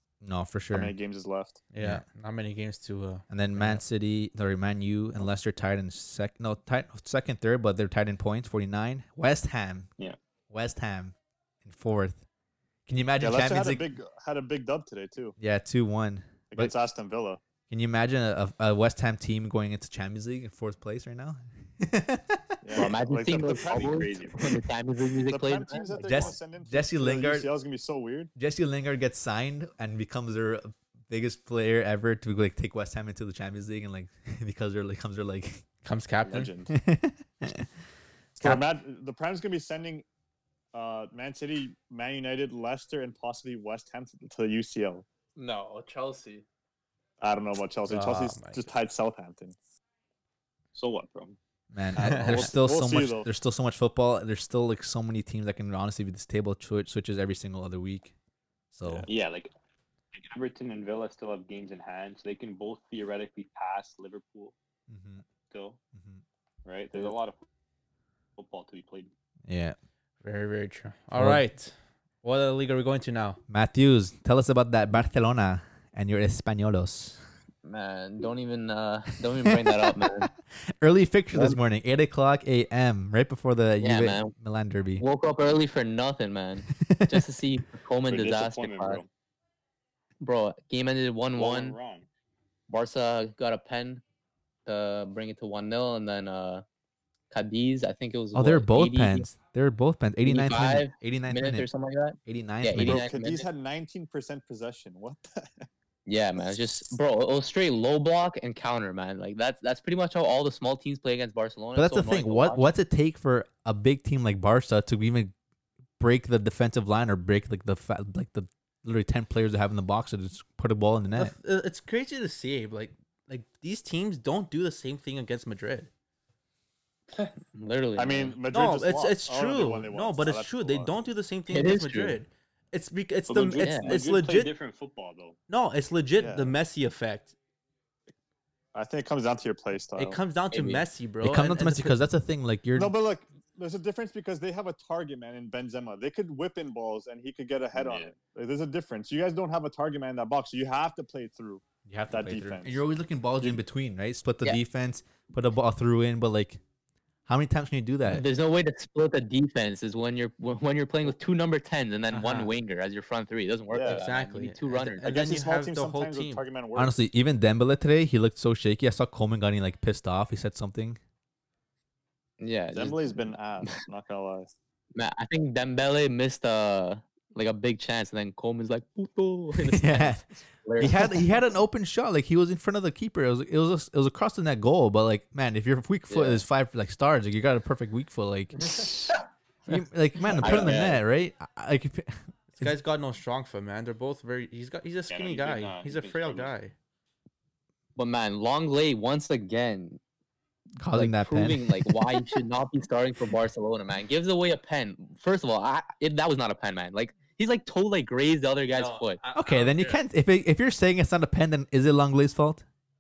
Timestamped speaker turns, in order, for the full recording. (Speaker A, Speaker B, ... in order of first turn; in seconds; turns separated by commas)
Speaker A: 0.2-0.9, Speaker B: 0.7-1.6, Speaker C: 1.7-3.8, Speaker A: 3.3-9.9, Speaker A: 10.5-12.2, Speaker A: 12.9-13.9, Speaker B: 13.2-15.4, Speaker A: 15.4-16.8, Speaker B: 16.5-17.4, Speaker A: 17.7-22.7, Speaker B: 22.6-24.5, Speaker D: 22.8-26.3, Speaker E: 22.8-24.5, Speaker B: 25.2-28.3, Speaker A: 26.0-27.5, Speaker A: 28.4-35.6, Speaker C: 35.8-36.5, Speaker B: 36.3-36.7, Speaker A: 36.7-37.7, Speaker B: 38.4-40.0, Speaker B: 40.7-45.0, Speaker F: 45.4-46.5, Speaker B: 47.2-49.5, Speaker C: 47.9-48.7, Speaker E: 50.7-51.4, Speaker A: 51.7-58.1, Speaker B: 52.0-53.3, Speaker C: 52.0-52.5, Speaker A: 58.7-59.1, Speaker E: 59.1-59.5, Speaker E: 60.1-64.5, Speaker A: 64.9-65.2, Speaker E: 65.5-65.8, Speaker A: 66.0-66.2, Speaker E: 66.7-67.4, Speaker E: 68.4-69.1, Speaker A: 69.5-69.8, Speaker C: 70.2-73.4, Speaker A: 71.2-71.4, Speaker A: 73.5-77.2, Speaker D: 77.6-80.3, Speaker A: 79.3-85.0, Speaker D: 83.8-84.3, Speaker D: 85.0-89.0, Speaker A: 86.8-87.3, Speaker E: 88.1-89.1, Speaker D: 90.2-91.8, Speaker E: 91.4-92.1, Speaker D: 92.7-94.0, Speaker D: 94.7-96.6, Speaker D: 97.3-99.3, Speaker A: 98.3-101.7, Speaker D: 100.3-103.5, Speaker A: 102.3-103.0, Speaker B: 102.8-105.7, Speaker D: 106.1-112.7, Speaker A: 111.8-115.3, Speaker A: 116.0-121.3, Speaker C: 121.1-125.9, Speaker D: 127.5-128.4, Speaker B: 128.0-130.9, Speaker C: 128.5-134.5, Speaker D: 131.5-132.2, Speaker E: 133.3-135.4, Speaker D: 133.6-133.9, Speaker C: 135.5-137.3, Speaker B: 136.2-136.6, Speaker B: 138.8-140.2, Speaker C: 140.0-142.0, Speaker D: 140.5-140.8, Speaker A: 141.2-142.9, Speaker B: 142.8-152.8, Speaker E: 147.7-148.2, Speaker A: 151.9-156.6, Speaker A: 157.3-158.2, Speaker D: 158.1-165.0, Speaker C: 162.1-162.5, Speaker B: 163.7-164.1, Speaker C: 163.9-166.4, Speaker B: 165.0-166.9, Speaker A: 166.8-171.0, Speaker D: 172.4-173.8, Speaker B: 172.7-174.5, Speaker D: 174.9-181.4, Speaker A: 179.6-180.2, Speaker A: 180.8-189.1, Speaker D: 186.1-186.4, Speaker A: 189.7-192.7, Speaker D: 189.7-191.0, Speaker C: 192.6-196.7, Speaker E: 195.1-196.6, Speaker D: 198.0-200.0, Speaker A: 200.8-202.4, Speaker D: 200.9-209.2, Speaker F: 208.7-210.0, Speaker A: 209.3-212.7